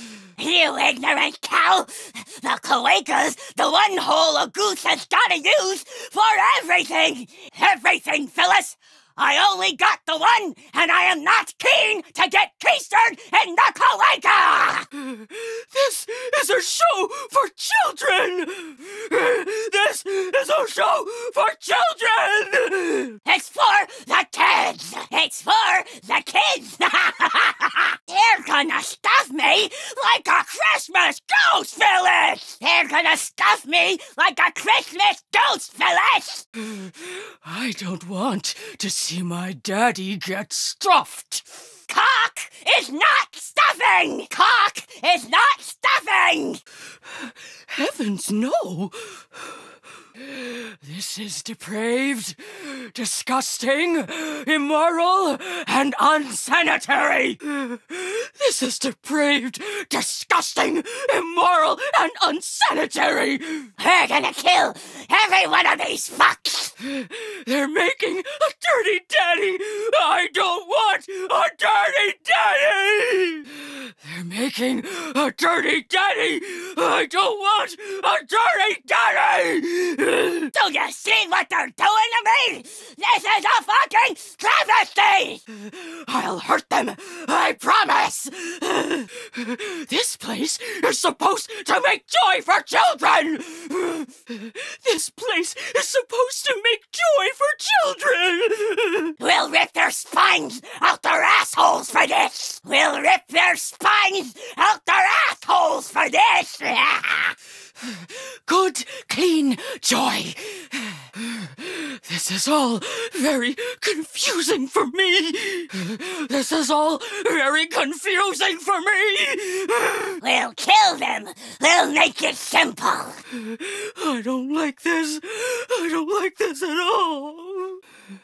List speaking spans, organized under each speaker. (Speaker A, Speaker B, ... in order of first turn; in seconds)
Speaker A: 0.4-14.9, 23.2-36.5, 41.9-46.6, 63.8-66.7, 80.5-85.4, 99.2-107.3, 120.2-123.2
Speaker B: 14.9-23.2, 36.6-41.4, 47.3-49.2, 50.2-63.7, 66.8-80.5, 85.5-99.1, 107.9-120.2, 123.3-127.8